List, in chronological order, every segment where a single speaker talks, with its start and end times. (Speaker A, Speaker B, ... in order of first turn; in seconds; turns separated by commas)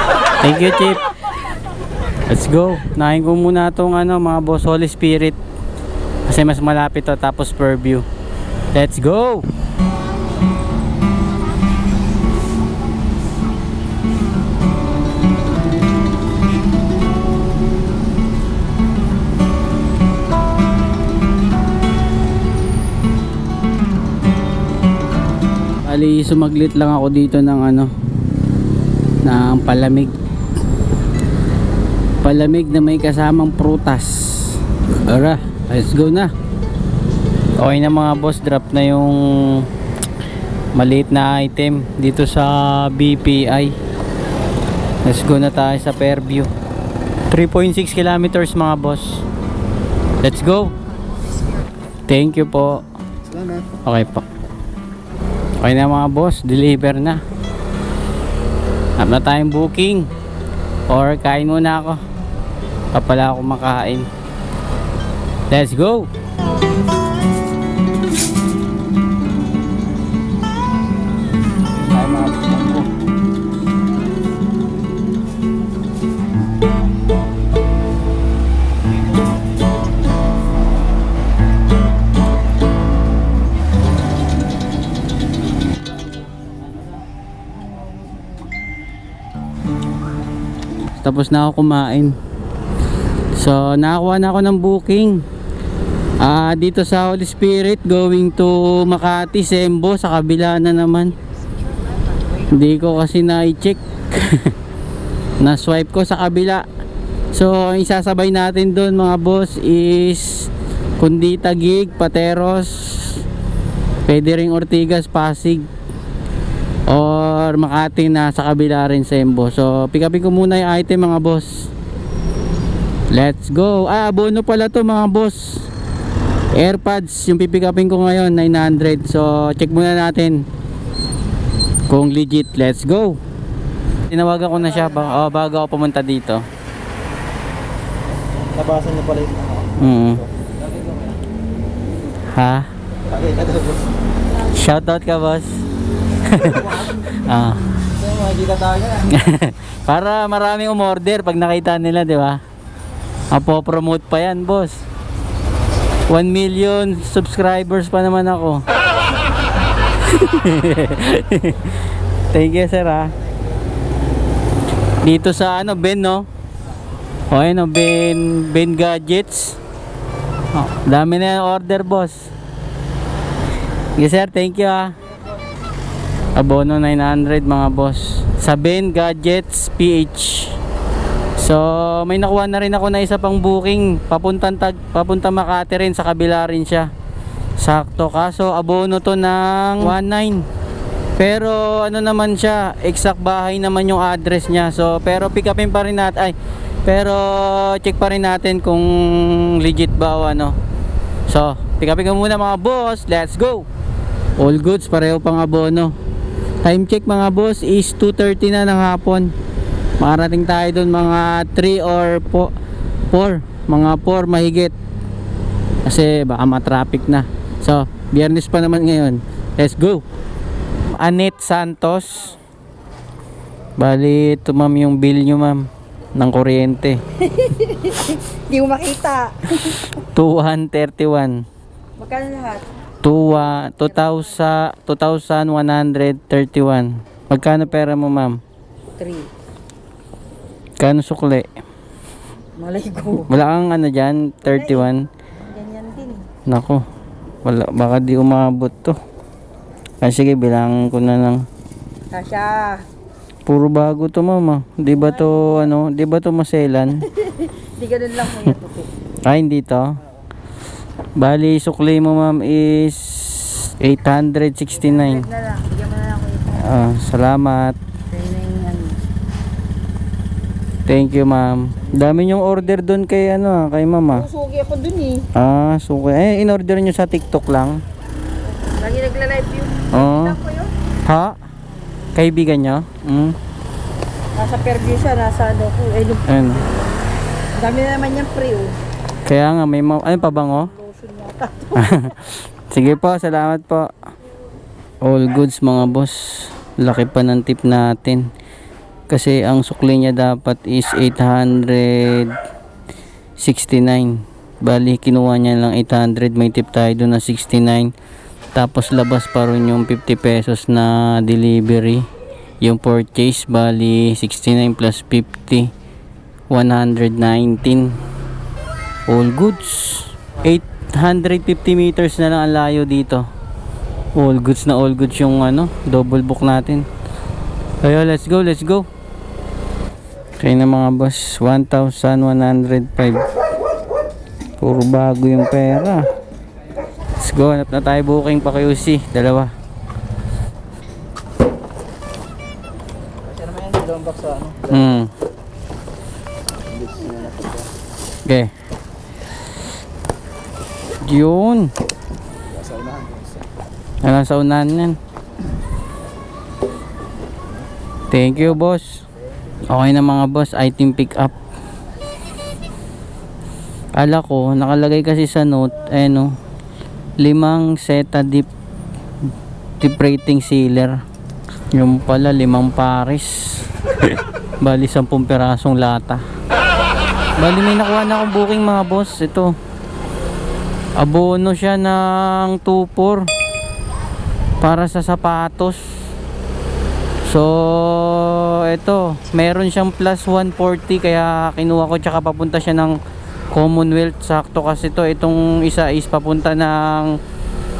Speaker A: 0.4-1.0, Speaker A: 2.3-5.4, Speaker A: 6.3-8.0, Speaker A: 8.7-9.5, Speaker A: 25.8-27.9, Speaker A: 29.2-30.1, Speaker A: 32.2-36.3, Speaker A: 37.6-39.7, Speaker A: 40.8-43.7, Speaker A: 45.0-46.5, Speaker A: 47.3-49.2, Speaker A: 50.2-50.7, Speaker A: 52.1-52.8, Speaker A: 53.8-54.2, Speaker A: 55.6-57.2, Speaker A: 59.0-60.1, Speaker A: 60.9-62.0, Speaker A: 62.9-64.1, Speaker A: 65.5-66.1, Speaker A: 71.8-72.9, Speaker A: 91.0-92.2, Speaker A: 93.4-95.2, Speaker A: 96.2-101.1, Speaker A: 102.5-104.5, Speaker A: 105.4-106.6, Speaker A: 107.3-113.2, Speaker A: 114.1-115.7, Speaker A: 116.9-121.7, Speaker A: 123.1-125.7, Speaker A: 126.5-130.4, Speaker A: 131.9-133.2, Speaker A: 134.1-136.4, Speaker B: 138.5-139.6, Speaker A: 139.7-140.2, Speaker A: 142.3-142.7, Speaker A: 144.5-145.5, Speaker A: 146.2-147.6, Speaker B: 148.2-148.9, Speaker A: 148.9-152.4, Speaker A: 153.3-154.8, Speaker A: 156.1-158.6, Speaker A: 160.0-161.8, Speaker A: 162.3-163.1, Speaker A: 165.0-166.2, Speaker A: 167.3-169.6, Speaker A: 170.5-172.3, Speaker A: 174.0-174.9, Speaker A: 176.3-180.5, Speaker A: 181.4-186.9, Speaker A: 187.6-190.4, Speaker A: 191.2-200.6, Speaker A: 201.3-203.7, Speaker A: 204.4-205.9, Speaker A: 206.6-209.3, Speaker A: 210.0-212.5, Speaker A: 213.1-214.7, Speaker A: 215.8-220.0, Speaker A: 220.9-222.3, Speaker A: 223.8-227.0, Speaker C: 227.2-229.9, Speaker A: 229.9-231.4, Speaker C: 232.0-232.7, Speaker A: 233.0-238.4, Speaker C: 239.0-239.3, Speaker A: 240.8-241.5, Speaker C: 242.6-243.3, Speaker A: 243.3-245.1, Speaker C: 244.5-244.9, Speaker C: 245.4-246.2, Speaker A: 246.5-246.8, Speaker A: 247.4-249.0, Speaker A: 250.0-251.4, Speaker C: 252.1-252.8, Speaker A: 253.4-257.0, Speaker C: 254.9-255.5, Speaker C: 257.0-258.9, Speaker A: 259.2-259.9, Speaker A: 261.2-265.2, Speaker C: 264.7-266.7, Speaker A: 266.5-267.8, Speaker C: 268.1-269.0, Speaker A: 270.9-274.3, Speaker C: 274.1-275.2, Speaker A: 275.4-277.8, Speaker C: 278.6-280.7, Speaker A: 279.9-280.4, Speaker A: 281.1-281.4, Speaker A: 282.1-283.4, Speaker C: 284.4-286.2, Speaker A: 286.2-286.6, Speaker C: 287.5-288.8, Speaker A: 289.2-290.7, Speaker C: 290.4-292.1, Speaker A: 291.8-293.9, Speaker A: 295.0-298.3, Speaker A: 299.1-302.4, Speaker A: 303.4-307.9, Speaker A: 308.5-312.1, Speaker A: 312.6-315.7, Speaker A: 316.5-318.0, Speaker A: 319.1-323.2, Speaker A: 324.1-326.9, Speaker A: 327.8-328.9, Speaker A: 330.4-333.2, Speaker A: 334.6-336.0, Speaker A: 337.2-339.5, Speaker B: 343.4-344.5, Speaker A: 344.6-345.1, Speaker A: 348.2-348.5, Speaker A: 351.0-351.7, Speaker A: 354.0-355.0, Speaker A: 358.1-359.0, Speaker A: 359.7-361.3, Speaker A: 364.0-366.3, Speaker A: 367.2-368.5, Speaker A: 369.8-371.0, Speaker A: 371.7-376.2, Speaker A: 377.4-379.5, Speaker A: 381.0-383.2, Speaker A: 384.6-385.8, Speaker A: 387.3-393.0, Speaker A: 393.5-397.1